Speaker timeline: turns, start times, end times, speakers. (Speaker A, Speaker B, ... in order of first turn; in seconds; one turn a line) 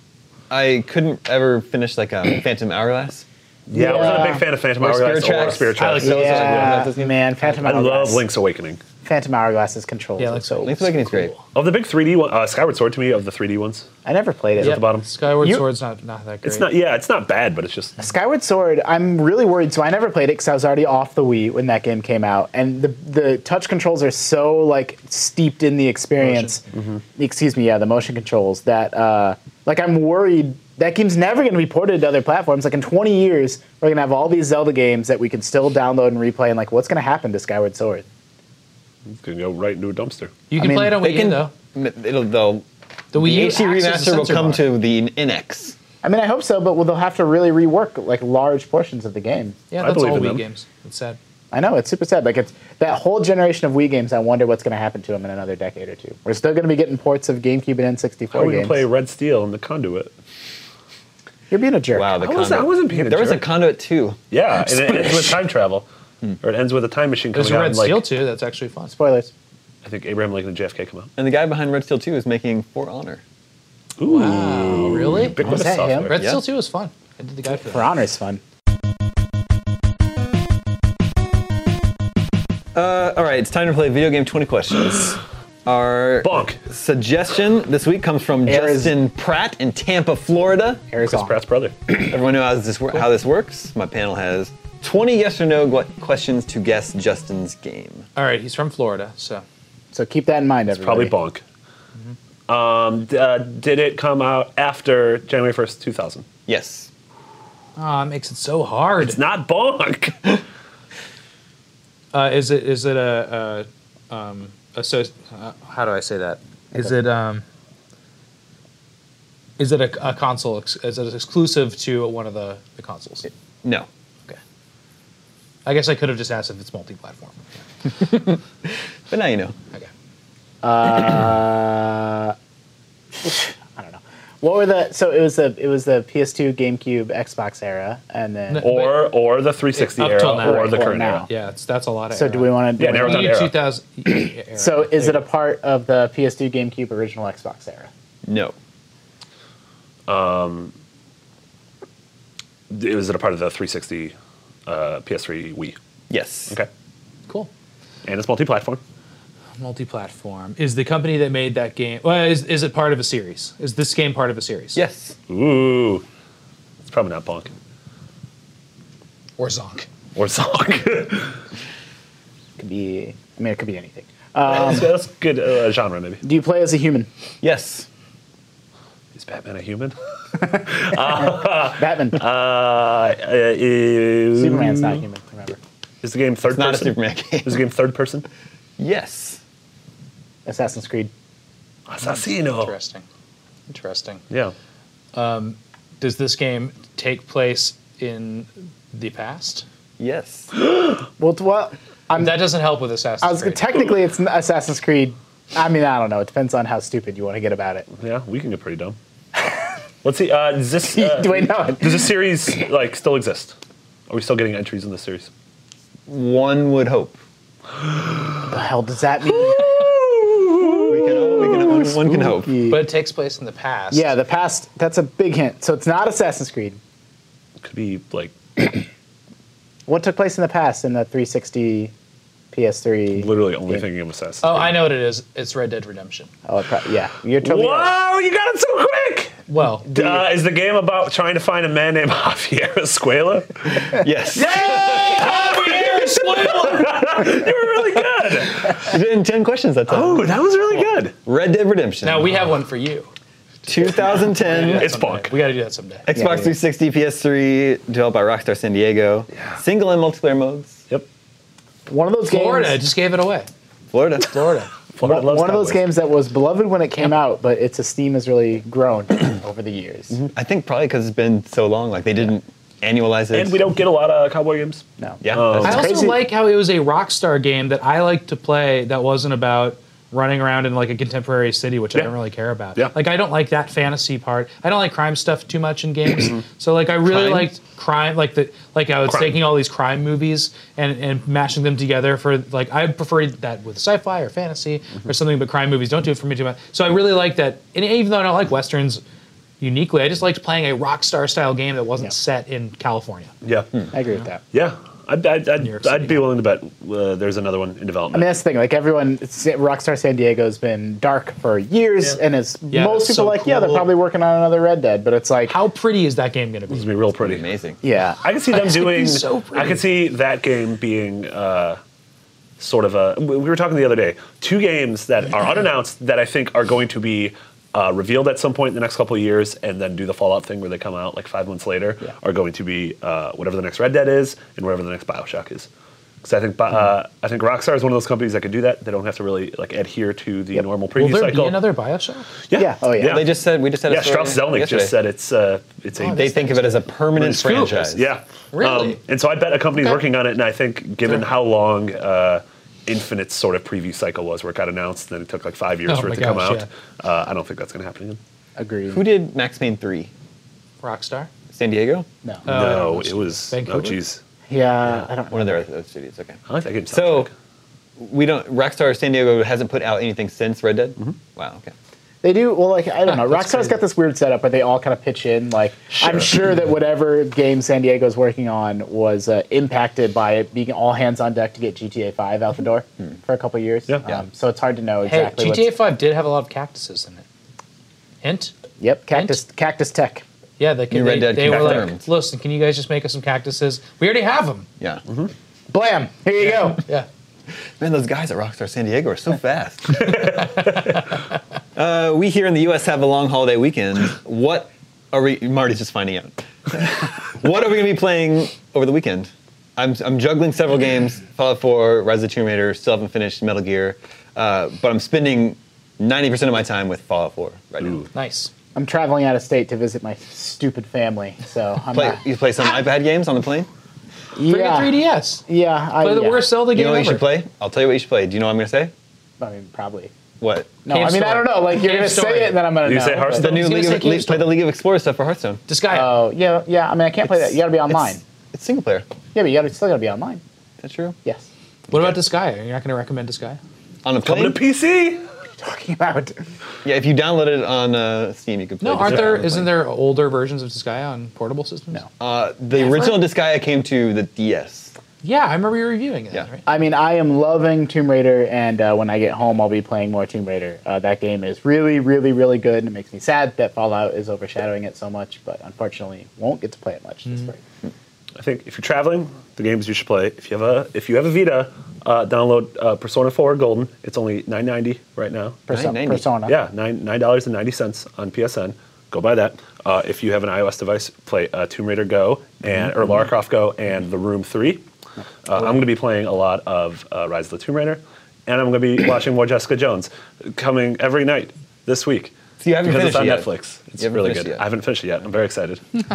Speaker A: 0.5-3.2
Speaker B: 3.7-6.6
Speaker C: 3.7-4.5
Speaker A: 4.8-7.1
Speaker D: 5.8-7.0
Speaker C: 6.0-8.2
Speaker B: 7.6-8.8
Speaker C: 9.0-10.8
Speaker D: 10.2-11.4
Speaker A: 10.6-11.3
Speaker B: 11.5-13.9
Speaker C: 14.1-14.8
Speaker B: 14.6-15.1
Speaker D: 14.6-16.7
Speaker B: 16.4-18.0
Speaker C: 18.0-26.6
Speaker D: 26.2-26.6
Speaker B: 26.7-27.0
Speaker C: 27.2-38.1
Speaker B: 39.1-40.4
Speaker D: 40.5-41.5
Speaker C: 40.6-41.0
Speaker A: 41.0-45.8
Speaker D: 43.1-44.7
Speaker C: 46.0-49.6
Speaker D: 49.7-51.2
Speaker B: 49.8-50.4
Speaker C: 51.5-58.8
Speaker B: 58.3-60.1
Speaker C: 61.5-62.2
Speaker A: 61.9-64.2
Speaker B: 62.2-63.4
Speaker B: 64.3-65.9
Speaker A: 64.8-65.3
Speaker B: 66.4-68.0
Speaker D: 67.3-69.0
Speaker C: 68.9-69.3
Speaker B: 69.8-71.1
Speaker A: 71.2-73.2
Speaker B: 74.0-76.2
Speaker D: 74.0-75.4
Speaker C: 74.3-76.2
Speaker D: 76.1-77.9
Speaker A: 76.2-76.4
Speaker C: 77.6-78.4
Speaker A: 82.8-90.8
Speaker B: 86.2-86.6
Speaker C: 88.5-88.9
Speaker C: 90.9-91.4
Speaker B: 91.0-91.7
Speaker A: 92.0-98.1
Speaker D: 98.2-99.4
Speaker C: 99.9-101.1
Speaker B: 100.7-101.4
Speaker B: 102.5-106.3
Speaker A: 106.5-106.9
Speaker D: 107.8-109.2
Speaker B: 109.0-110.4
Speaker D: 112.1-117.4
Speaker D: 119.6-123.3
Speaker A: 123.6-123.9
Speaker D: 125.7-127.4
Speaker A: 128.0-129.6
Speaker C: 130.6-132.3
Speaker C: 133.2-138.7
Speaker D: 138.5-139.1
Speaker B: 138.6-141.3
Speaker D: 139.7-145.0
Speaker C: 140.4-141.3
Speaker C: 142.1-143.4
Speaker B: 142.8-143.6
Speaker C: 144.1-147.9
Speaker A: 148.3-148.6
Speaker B: 150.1-150.7
Speaker B: 152.7-154.2
Speaker B: 154.7-155.8
Speaker A: 156.1-156.6
Speaker B: 158.1-158.8
Speaker D: 159.6-164.8
Speaker A: 164.8-165.2
Speaker B: 165.3-166.1
Speaker B: 166.9-167.5
Speaker D: 169.4-169.9
Speaker B: 170.2-171.4
Speaker C: 172.6-174.9
Speaker B: 174.4-176.2
Speaker C: 176.2-177.1
Speaker A: 177.4-177.9
Speaker B: 179.2-185.0
Speaker C: 181.7-182.2
Speaker C: 184.4-185.6
Speaker B: 186.0-188.2
Speaker A: 186.4-187.6
Speaker A: 188.8-189.4
Speaker C: 190.5-191.1
Speaker B: 191.9-192.7
Speaker D: 192.0-193.1
Speaker D: 193.7-194.2
Speaker B: 194.3-194.6
Speaker D: 195.1-199.7
Speaker A: 200.0-200.5
Speaker C: 201.2-202.5
Speaker D: 202.1-203.6
Speaker C: 203.2-207.9
Speaker B: 208.0-209.0
Speaker B: 210.0-213.6
Speaker C: 210.8-212.1
Speaker B: 214.1-215.3
Speaker A: 216.1-217.2
Speaker B: 217.8-218.4
Speaker C: 218.5-219.8
Speaker B: 219.5-219.9
Speaker C: 220.8-222.8
Speaker A: 220.9-222.6
Speaker D: 222.7-224.1
Speaker C: 223.9-226.8
Speaker B: 227.6-228.3
Speaker C: 229.9-231.9
Speaker C: 232.5-233.8
Speaker B: 233.1-234.8
Speaker D: 234.4-236.3
Speaker C: 236.4-237.9
Speaker B: 237.4-248.8
Speaker D: 239.5-239.9
Speaker C: 239.9-240.3
Speaker A: 243.9-245.3
Speaker D: 244.6-247.2
Speaker A: 248.5-250.4
Speaker B: 249.9-251.2
Speaker A: 251.2-252.4
Speaker D: 252.0-253.1
Speaker A: 253.7-254.9
Speaker D: 254.0-256.1
Speaker B: 254.5-255.3
Speaker A: 256.1-260.8
Speaker C: 256.1-256.5
Speaker B: 259.3-259.6
Speaker C: 261.9-262.8
Speaker D: 262.3-263.5
Speaker A: 263.9-264.4
Speaker D: 264.3-264.7
Speaker B: 264.9-265.8
Speaker C: 265.0-270.2
Speaker A: 270.3-273.6
Speaker B: 273.3-275.9
Speaker C: 275.0-276.2
Speaker A: 275.2-275.6
Speaker D: 275.6-299.0
Speaker B: 287.1-287.5
Speaker B: 289.1-289.4
Speaker D: 299.6-303.3
Speaker B: 303.4-303.7
Speaker C: 303.9-304.4
Speaker B: 304.5-308.4
Speaker D: 305.6-306.4
Speaker C: 308.1-315.6
Speaker D: 312.7-313.9
Speaker D: 315.5-316.9
Speaker B: 316.7-317.5
Speaker A: 317.2-317.8
Speaker C: 317.8-318.2
Speaker B: 318.2-321.8
Speaker D: 318.5-319.8
Speaker B: 322.6-335.7
Speaker B: 336.2-341.6
Speaker D: 340.9-342.3
Speaker B: 342.5-343.3
Speaker C: 342.5-343.2
Speaker A: 343.0-345.0
Speaker B: 343.9-346.3
Speaker D: 346.0-347.8
Speaker A: 346.1-348.1
Speaker B: 347.1-358.2
Speaker D: 348.5-349.0
Speaker D: 349.7-350.0
Speaker D: 351.1-351.3
Speaker D: 355.9-356.7
Speaker C: 358.6-359.0
Speaker A: 358.9-360.1
Speaker D: 360.8-361.3
Speaker A: 361.5-362.1
Speaker D: 362.5-364.0
Speaker B: 362.5-364.2
Speaker C: 364.5-365.7
Speaker A: 365.3-367.3
Speaker B: 366.5-367.3
Speaker A: 368.0-371.7
Speaker C: 372.2-385.8
Speaker D: 373.1-373.8
Speaker B: 376.0-376.3
Speaker D: 385.1-387.2
Speaker D: 388.2-388.5
Speaker C: 388.8-390.2
Speaker D: 389.1-389.4
Speaker D: 390.6-394.7
Speaker A: 390.9-392.1
Speaker B: 391.5-391.8
Speaker C: 395.7-396.8
Speaker D: 396.6-397.1
Speaker A: 397.8-400.2
Speaker B: 399.9-401.0
Speaker A: 401.8-418.0
Speaker B: 417.8-418.1
Speaker D: 418.1-418.5
Speaker C: 418.8-422.2
Speaker A: 421.9-423.7
Speaker C: 424.4-426.5
Speaker D: 424.4-425.4
Speaker D: 426.0-427.2
Speaker A: 426.7-428.9
Speaker C: 429.4-430.1
Speaker A: 430.4-430.7
Speaker C: 430.9-433.5
Speaker D: 430.9-432.8
Speaker B: 432.8-433.6
Speaker D: 433.3-434.5
Speaker A: 433.4-435.6
Speaker D: 435.7-436.1
Speaker C: 435.9-438.2
Speaker A: 437.9-439.1
Speaker C: 439.3-440.4
Speaker A: 440.8-441.2
Speaker D: 441.9-443.6
Speaker A: 441.9-442.2
Speaker A: 444.1-444.6
Speaker B: 444.2-445.2
Speaker C: 445.6-446.4
Speaker A: 446.8-449.7
Speaker D: 448.8-452.1
Speaker B: 449.1-449.4
Speaker A: 452.2-454.9
Speaker D: 452.7-453.2
Speaker D: 455.2-456.7
Speaker C: 456.7-467.6
Speaker B: 468.4-475.6
Speaker C: 475.7-476.6
Speaker A: 475.7-476.2
Speaker B: 476.5-484.9
Speaker B: 485.5-495.8
Speaker A: 492.6-494.6